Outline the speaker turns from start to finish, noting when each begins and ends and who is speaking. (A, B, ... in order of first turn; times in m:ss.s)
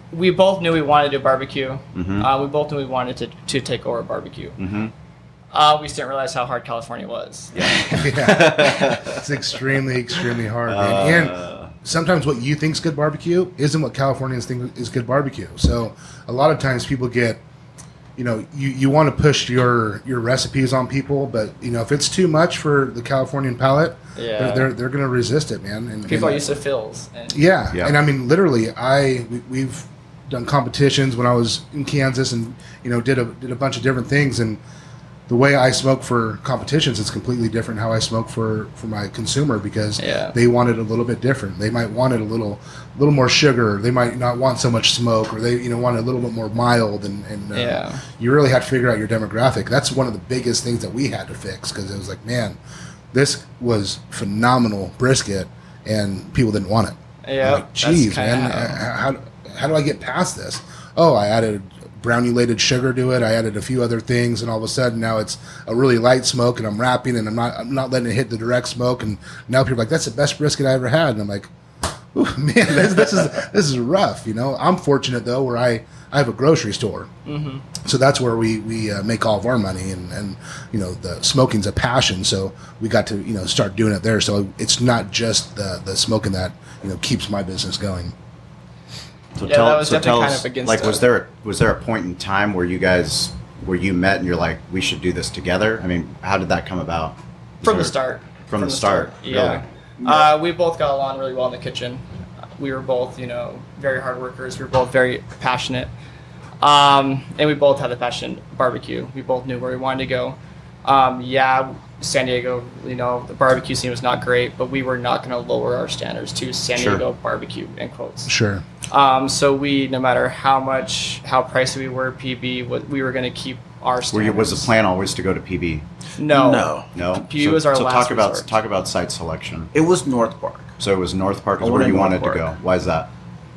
0:00.1-0:04.6 A
0:01.9-0:02.3 B
0:04.6-0:04.9 B
0:05.5-0:07.8 A
0:07.6-0:09.6 B
0:07.9-0:17.4 C
0:10.6-0:11.7 B
0:18.2-0:26.4 C
0:24.2-0:24.7 A
0:26.0-0:27.4 A
0:27.3-0:34.6 C
0:35.3-0:52.6 C
0:40.0-0:40.4 A
0:47.5-0:48.0 A
0:53.1-1:11.5 C
0:57.2-0:58.8 A
1:12.1-1:17.1 C
1:17.2-1:17.6 A
1:17.8-1:28.1 C
1:29.4-1:37.9 B
1:29.4-1:31.0 A
1:37.6-1:42.0 A
1:38.5-1:39.6 B
1:40.0-1:40.3 D
1:42.6-1:45.9 A
1:46.6-1:58.3 A
1:56.8-1:57.0 B
1:58.3-1:58.6 C
1:58.9-2:04.7 A
2:04.1-2:05.8 B
2:06.2-2:08.5 A
2:06.3-2:06.9 D
2:06.9-2:09.7 B
2:09.7-2:10.7 D
2:10.8-2:13.1 B
2:11.6-2:12.5 D